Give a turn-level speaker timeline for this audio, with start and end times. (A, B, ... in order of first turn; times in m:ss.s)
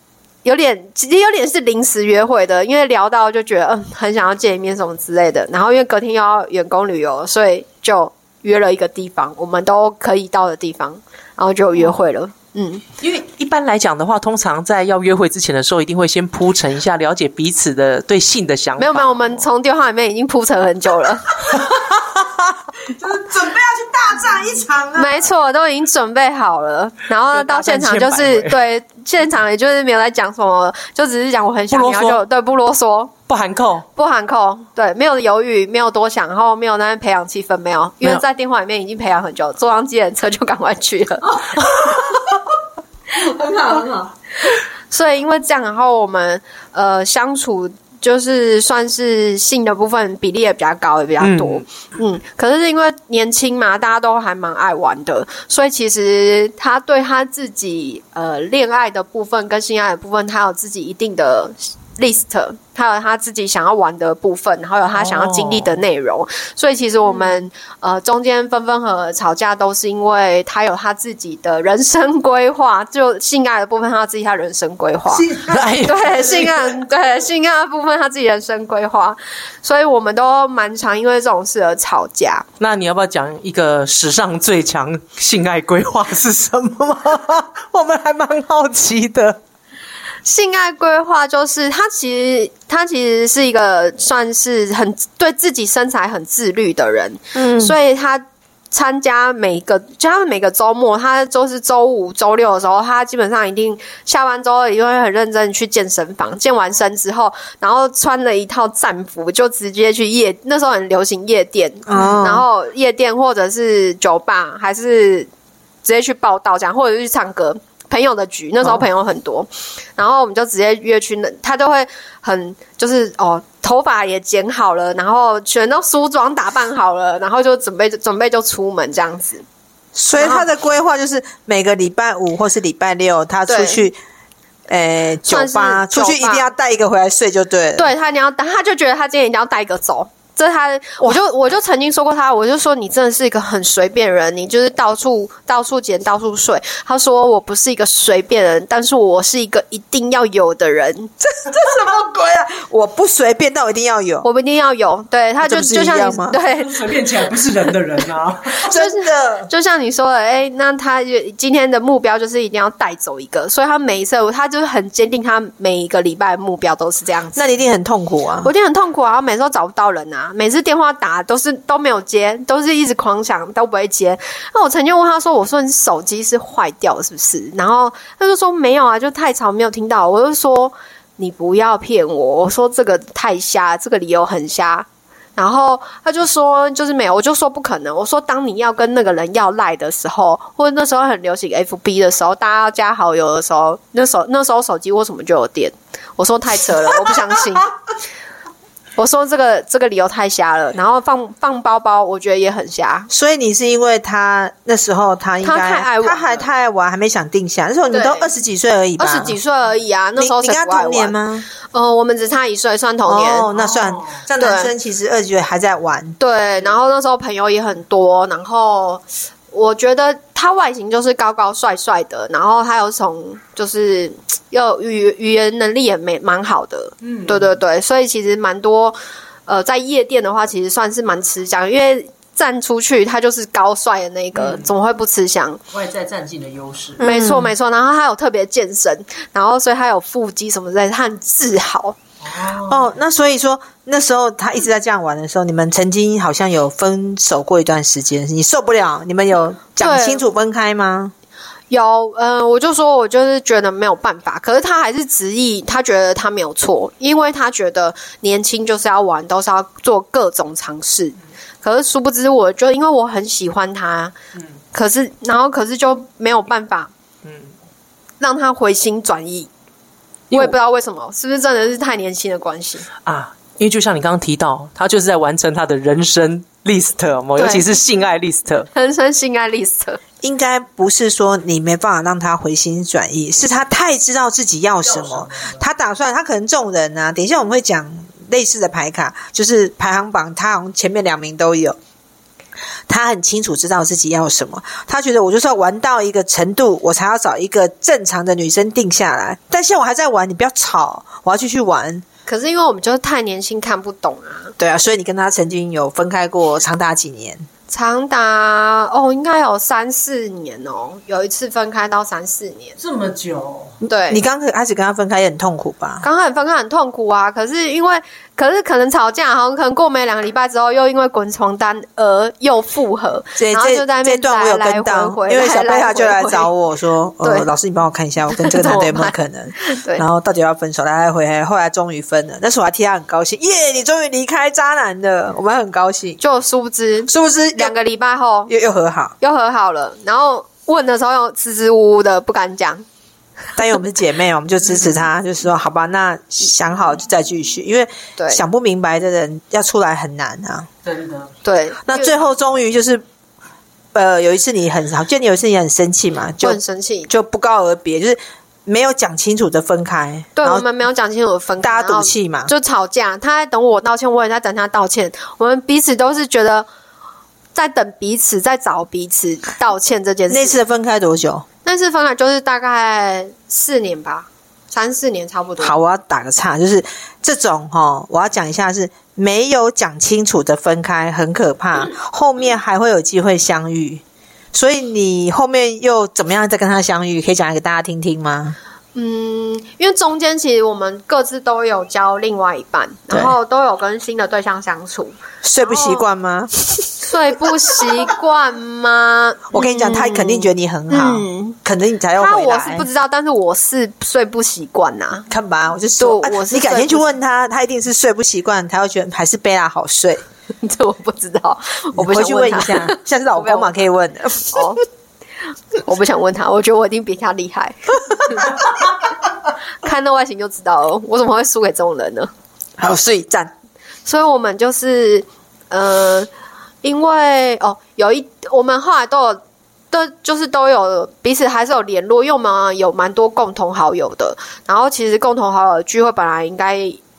0:00.4-0:12.8 A
0:13.0-0:19.4 B
0:18.8-0:21.5 A
0:22.8-0:25.3 C
0:25.0-0:33.1 A
0:27.3-0:28.6 B
0:31.7-0:32.2 B
0:33.3-0:33.9 B
0:34.0-0:41.6 A
0:41.9-0:42.2 C
0:43.1-0:44.1 C
0:44.5-1:22.5 A
0:51.2-0:51.6 B
1:05.0-1:05.8 B
1:15.1-1:16.6 C
1:15.5-1:16.5 B
1:22.6-1:29.4 B
1:30.2-1:55.3 A
1:37.4-1:37.8 C
1:51.9-1:52.4 C
1:55.8-2:09.4 A
2:10.0-2:14.0 C
2:10.2-2:10.5 A
2:13.5-2:13.8 A
2:14.7-2:17.9 C
2:15.3-2:16.5 A
2:17.8-2:31.1 A
2:31.2-2:34.3 C
2:34.2-2:36.8 A
2:35.4-2:36.4 C
2:36.3-2:38.7 B
2:38.6-2:39.5 C
2:38.6-2:47.4 A
2:47.4-2:48.5 C
2:48.4-3:17.7 A
3:19.0-3:23.1 A
3:23.1-3:29.4 C
3:25.4-3:26.4 A
3:27.9-3:28.3 A
3:29.0-3:31.2 A
3:30.2-3:31.5 C
3:31.7-3:33.5 A
3:33.1-3:36.2 C
3:33.5-3:34.2 B
3:34.4-3:34.7 A
3:36.2-3:55.6 A
3:47.0-3:47.5 B
3:54.4-3:54.7 B
3:55.7-3:57.0 B
3:57.0-3:57.5 C
3:57.0-4:02.0 A
4:02.2-4:02.9 B
4:02.7-4:11.1 C
4:09.8-4:10.2 A
4:11.7-4:24.1 A
4:24.7-4:26.9 A
4:27.2-4:27.5 B
4:28.2-4:29.5 A
4:30.3-4:32.9 A
4:33.0-4:38.7 B
4:37.4-4:37.7 A
4:38.7-4:40.0 A
4:40.2-4:51.8 C
4:44.9-4:45.6 B
4:52.9-5:02.0 C
5:02.3-5:04.6 A
5:04.6-5:07.5 C
5:07.7-5:12.8 A
5:12.8-5:13.8 B
5:13.9-5:14.2 A
5:14.1-5:16.0 C
5:16.0-5:26.5 A
5:23.4-5:36.2 C
5:27.2-5:27.5 A
5:28.3-5:30.0 A
5:36.2-5:38.5 A
5:37.1-5:37.8 C
5:38.5-5:39.2 C
5:39.2-5:42.8 A
5:43.6-5:50.7 C
5:48.2-5:48.4 A
5:50.8-5:51.3 B
5:51.4-5:52.2 A
5:51.8-5:53.0 C
5:53.9-6:00.7 C
5:56.4-5:57.1 A
6:00.4-6:06.7 A
6:01.6-6:02.5 C
6:07.5-6:10.6 A
6:10.3-6:11.4 C
6:11.6-6:15.8 A
6:15.6-6:24.0 C
6:24.5-6:28.6 C
6:29.0-6:36.1 A
6:35.4-6:36.9 C
6:37.0-6:41.6 A
6:39.5-6:42.9 C
6:42.2-6:45.3 A
6:45.3-6:50.2 C
6:46.0-6:47.0 A
6:50.6-6:53.7 A
6:52.0-6:54.8 C
6:54.5-6:54.8 A
6:55.8-6:58.6 A
6:59.8-7:02.3 A
7:02.8-7:03.5 C
7:04.0-7:06.3 A
7:06.8-7:09.4 A
7:09.9-7:17.0 A